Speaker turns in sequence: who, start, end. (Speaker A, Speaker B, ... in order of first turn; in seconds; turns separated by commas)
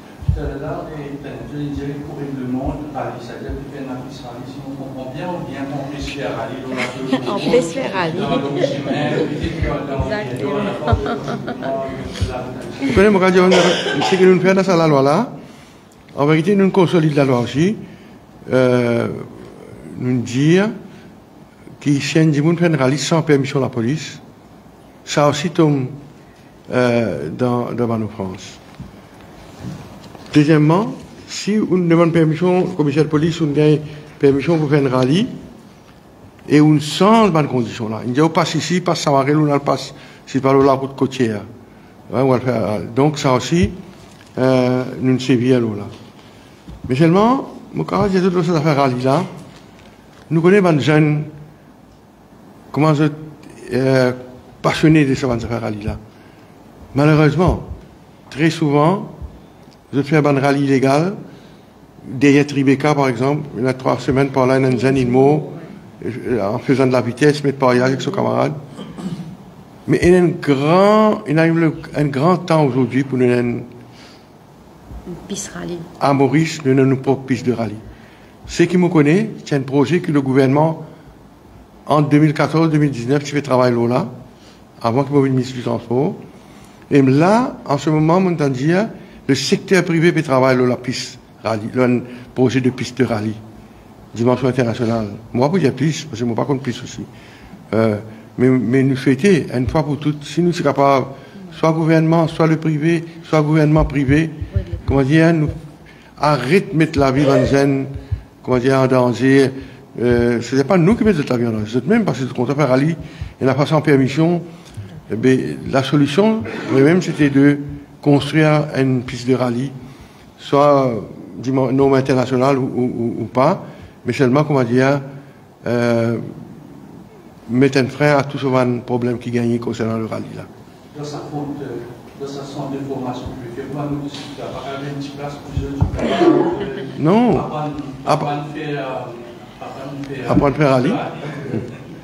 Speaker A: 0.3-13.4, Speaker B: 7.2-8.9, Speaker C: 12.9-15.3, Speaker C: 16.1-17.8, Speaker C: 18.4-19.3, Speaker C: 19.8-20.7, Speaker C: 21.8-24.2, Speaker C: 25.1-26.0, Speaker C: 26.7-28.6, Speaker C: 30.3-35.3, Speaker C: 36.5-41.5, Speaker C: 42.1-43.8, Speaker C: 44.3-45.9, Speaker C: 46.9-49.3, Speaker C: 50.3-51.3, Speaker C: 52.7-56.0, Speaker C: 56.9-57.7, Speaker C: 58.3-59.1, Speaker C: 59.9-61.2, Speaker C: 62.0-68.6, Speaker B: 64.8-65.6, Speaker C: 69.8-73.7, Speaker B: 75.1-75.8, Speaker C: 76.0-77.8, Speaker C: 78.5-80.9, Speaker C: 81.8-84.1, Speaker C: 84.8-86.2, Speaker C: 86.9-93.4, Speaker C: 94.1-97.1, Speaker C: 97.7-105.5, Speaker C: 106.2-114.5, Speaker C: 115.1-119.7, Speaker C: 120.4-125.0, Speaker C: 125.6-126.3, Speaker C: 127.5-130.5, Speaker A: 130.9-141.8, Speaker C: 137.0-137.5, Speaker C: 138.0-138.3, Speaker C: 140.2-141.0